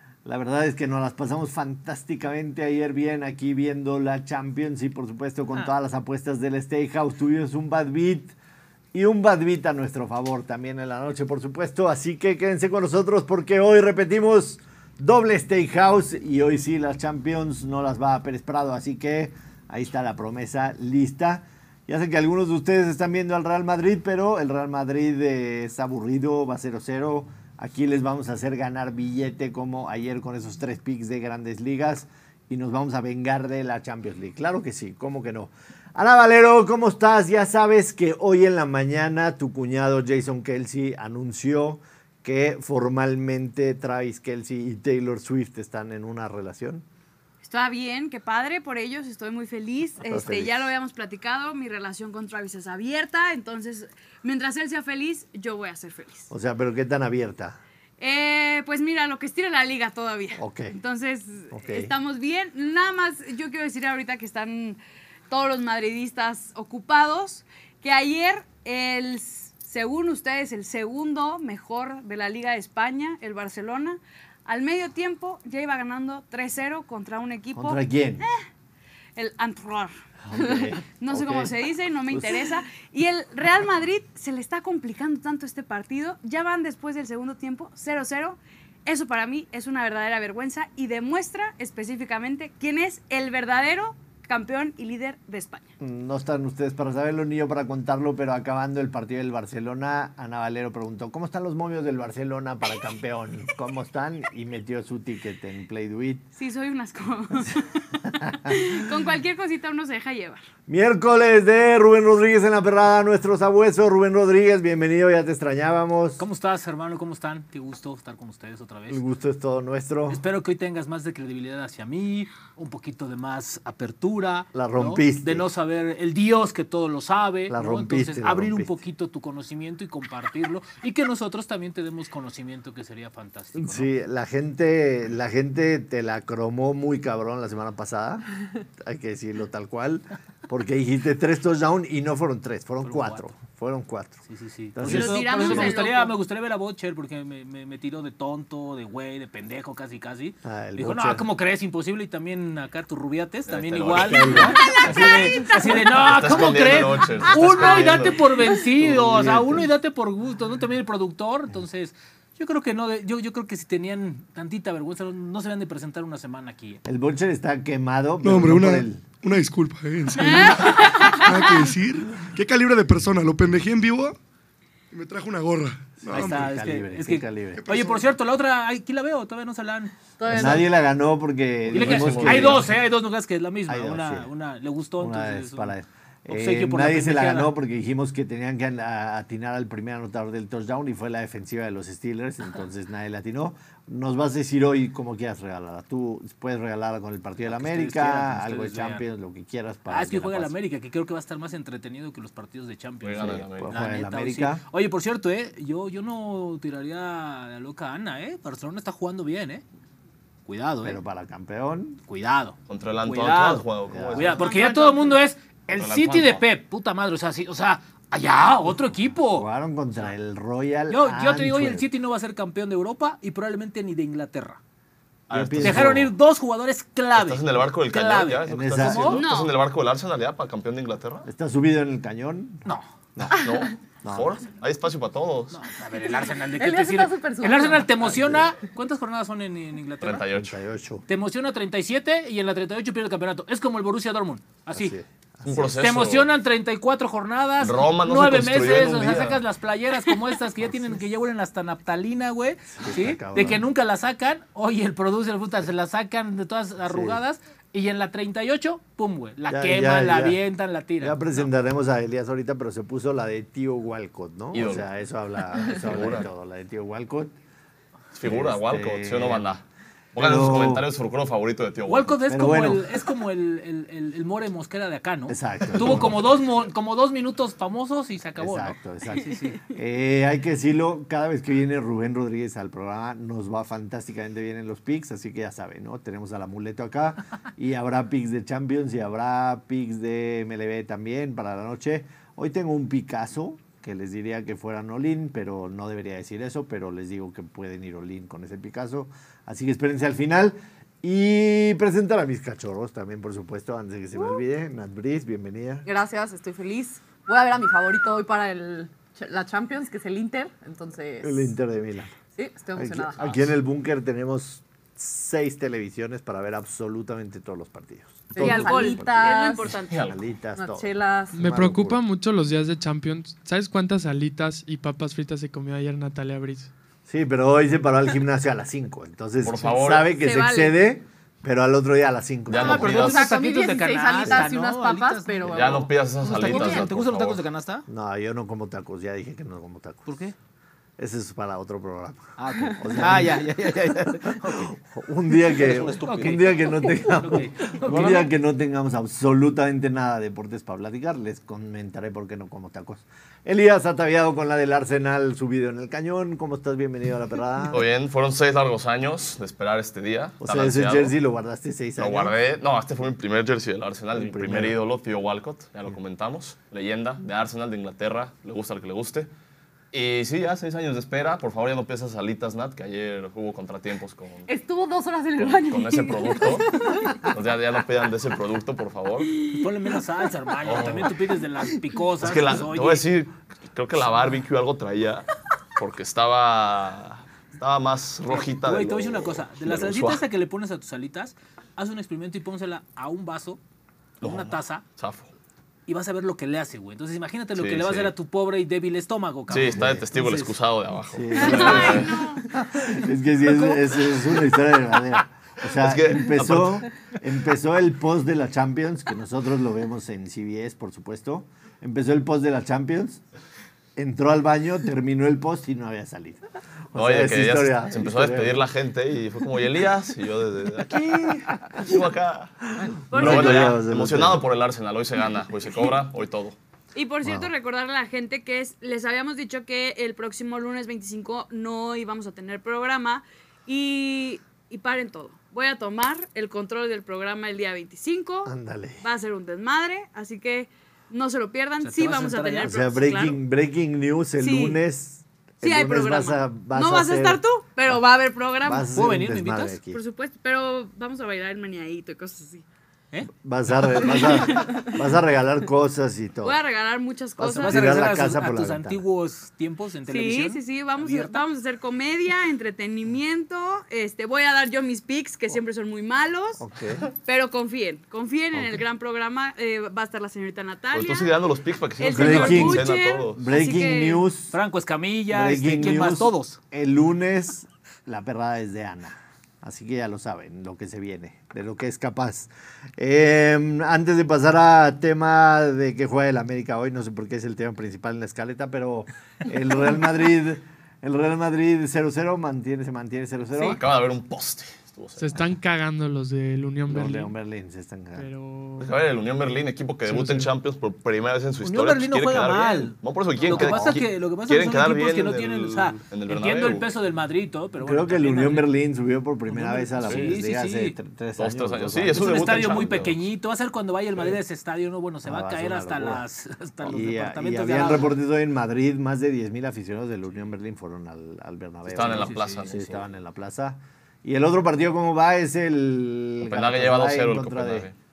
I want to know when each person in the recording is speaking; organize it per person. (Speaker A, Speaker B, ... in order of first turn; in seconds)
Speaker A: 0.2-8.3, 8.9-46.9, 50.1-50.7, 56.3-57.6, 60.4-60.8, 61.5-61.9, 77.5-78.3, 80.3-81.5, 82.1-82.5, 95.8-106.3, 108.2-108.5, 110.7-116.2, 118.9-120.2, 124.5-125.5, 127.5-128.8, 133.6-144.2, 144.8-145.8, 150.4-151.3, 153.9-155.1, 157.3-159.7, 166.8-169.1, 176.0-177.6, 180.3-182.8, 183.7-184.3, 185.0-200.5, 203.2-204.6, 210.8-212.0, 213.9-214.4, 218.9-221.9, 225.3-226.1, 228.4-229.2, 231.2-232.7, 234.0-234.3, 238.1-238.4, 240.3-241.0, 244.7-245.8, 252.8-253.7, 256.9-257.2, 259.5-260.4, 261.0-267.3, 268.2-269.5, 270.1-270.9, 272.3-273.1, 275.3-276.2, 278.4-305.9, 311.2-312.2, 312.8-319.3, 320.0-322.0, 327.1-332.9, 337.9-340.1, 341.0-357.9, 360.4-362.4, 364.1-364.8, 399.6-400.6, 401.1-413.2, 414.0-418.6, 423.1-424.4, 427.2-427.5, 438.5-439.0, 442.6-448.0, 448.6-450.0, 453.3-456.6, 457.4-459.0, 466.6-467.1, 468.5-468.8, 472.1-474.6, 475.3-493.8, 496.9-498.3, 503.4-504.0, 507.8-512.6, 515.2-516.3, 516.8-527.9
Speaker B: 47.4-56.3, 58.0-78.4, 79.2-79.9, 81.0-95.7, 106.4-110.4, 144.8-146.1, 154.7-155.1, 170.2-171.4, 214.5-215.1, 229.1-229.6, 318.4-320.0, 330.2-330.8, 401.4-402.5, 423.1-423.8, 426.9-443.4, 444.4-444.8, 445.6-449.0, 449.9-452.6, 454.4-454.9, 456.4-458.1, 460.1-466.6, 467.2-471.3, 472.0-474.2
Speaker C: 116.2-119.0, 120.1-133.9, 142.8-143.3, 144.3-166.8, 176.1-180.6, 181.7-185.8, 186.3-187.5, 197.4-199.0, 199.9-209.6, 210.5-211.0, 212.1-219.5, 220.9-224.6, 225.6-229.2, 235.5-240.2, 241.1-245.0, 245.7-261.2, 271.9-279.6, 332.6-337.9, 340.1-340.4, 342.4-344.7, 345.6-348.3, 379.6-383.0, 388.3-393.6, 394.2-394.8, 395.9-399.9, 441.8-442.7, 448.9-449.8, 453.8-454.2, 457.4-461.4, 474.5-476.6, 501.6-508.7, 509.5-511.0, 512.1-518.2
Speaker D: 153.5-158.2, 181.7-182.7, 203.0-203.7, 212.7-214.4, 215.7-216.4, 225.3-226.0, 227.1-231.3, 233.3-235.6, 240.0-240.6, 245.5-246.3, 247.6-249.4, 264.5-266.3, 268.1-272.2, 313.2-313.5, 319.8-320.4, 329.4-330.1, 332.5-333.4, 335.5-337.4, 345.6-346.6, 347.9-348.2, 357.7-361.2, 362.0-369.3, 369.9-374.5, 375.4-379.4, 380.6-381.2, 382.2-390.2, 394.2-395.3, 397.6-398.1, 399.5-402.2, 405.6-406.9, 416.9-426.6, 470.9-473.4, 493.8-495.4, 498.8-506.9, 510.1-510.4, 511.4-513.2, 521.9-523.0, 526.4-528.0
Speaker E: 168.2-174.2, 174.9-176.5, 177.6-178.1
Speaker F: 180.2-180.7, 236.4-237.9, 305.8-311.5, 312.4-313.2, 318.3-319.7, 320.6-321.4, 332.6-336.9, 374.5-377.3
Speaker G: 321.3-326.7, 495.2-497.3, 498.2-498.8, 500.1-500.4